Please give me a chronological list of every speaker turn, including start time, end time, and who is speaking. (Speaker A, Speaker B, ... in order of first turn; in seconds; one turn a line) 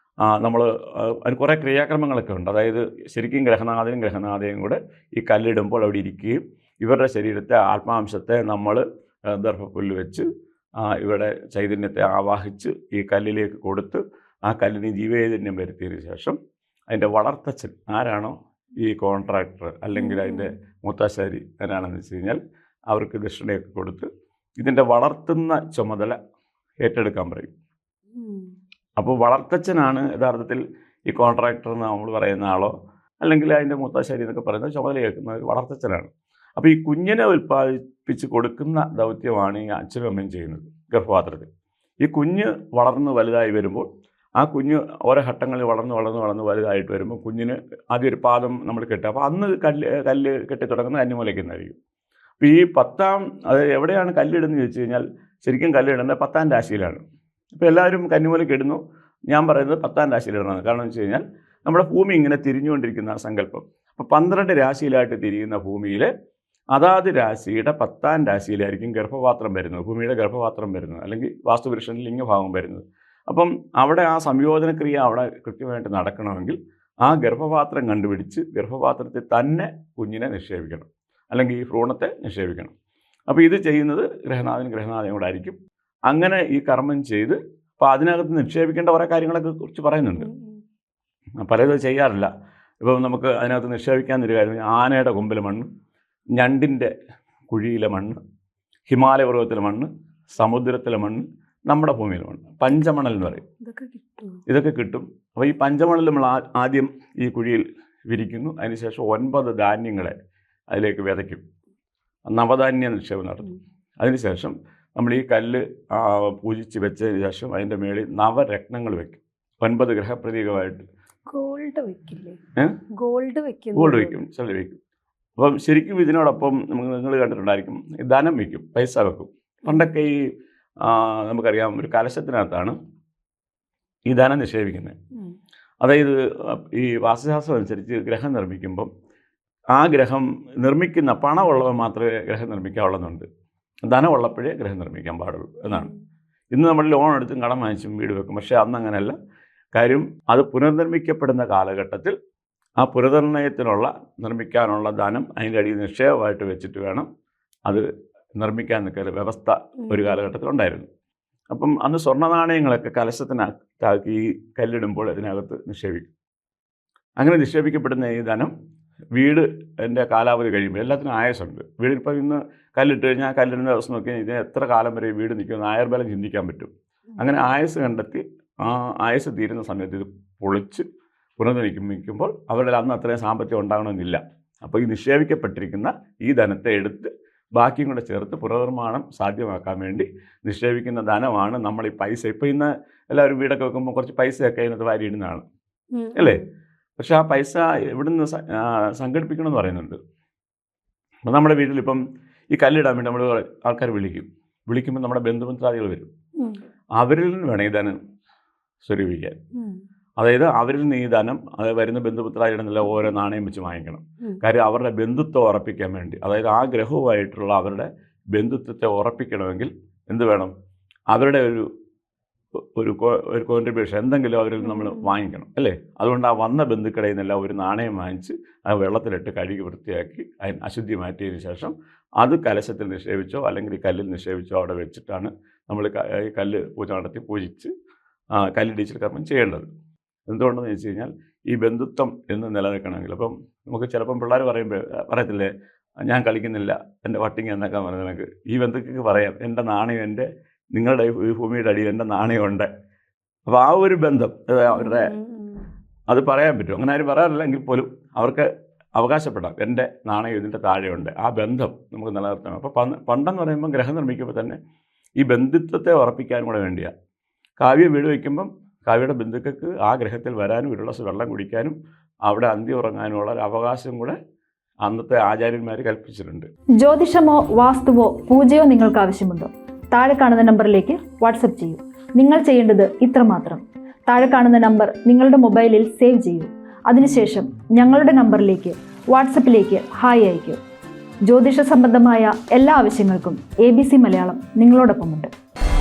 Speaker A: 0.2-10.3
Speaker A: 10.8-16.4
Speaker A: 16.9-24.1
Speaker B: 19.9-20.5
Speaker A: 24.6-26.2
Speaker A: 26.8-27.5
Speaker B: 28.1-28.4
Speaker A: 29.0-41.5
Speaker A: 42.0-43.9
Speaker A: 44.4-51.8
Speaker A: 52.4-57.0
Speaker A: 57.6-66.1
Speaker A: 66.7-82.7
Speaker A: 83.3-85.6
Speaker A: 86.1-90.3
Speaker B: 90.2-90.6
Speaker A: 91.4-92.3
Speaker A: 92.8-95.7
Speaker A: 96.4-96.9
Speaker A: 97.5-98.2
Speaker A: 98.9-103.4
Speaker B: 103.6-104.4
Speaker A: 104.5-110.1
Speaker A: 110.7-111.4
Speaker A: 112.3-120.8
Speaker B: 121.3-122.4
Speaker B: 123.0-124.2
Speaker A: 123.7-124.8
Speaker A: 125.4-130.3
Speaker A: 130.8-132.8
Speaker A: 134.1-134.9
Speaker A: 135.8-138.9
Speaker A: 139.7-143.3
Speaker A: 143.8-145.9
Speaker B: 145.7-146.0
Speaker A: 146.5-149.1
Speaker A: 149.7-152.2
Speaker A: 152.8-157.1
Speaker A: 158.4-160.9
Speaker B: 159.9-160.1
Speaker A: 161.5-166.1
Speaker A: 167.2-168.5
Speaker A: 169.2-180.8
Speaker A: 181.4-195.4
Speaker B: 195.9-196.4
Speaker A: 196.2-196.4
Speaker A: 197.0-200.0
Speaker A: 201.3-202.0
Speaker A: 202.5-206.1
Speaker A: 207.0-208.0
Speaker A: 208.8-209.4
Speaker A: 210.2-220.5
Speaker A: 221.1-221.7
Speaker A: 222.8-237.7
Speaker B: 224.7-225.0
Speaker A: 238.4-239.7
Speaker A: 240.3-245.5
Speaker A: 246.1-252.7
Speaker A: 253.5-255.1
Speaker B: 254.7-255.7
Speaker A: 256.1-264.6
Speaker A: 265.2-266.9
Speaker A: 267.6-271.8
Speaker A: 272.3-274.1
Speaker A: 274.8-276.5
Speaker C: 276.8-290.6
Speaker C: 291.3-295.3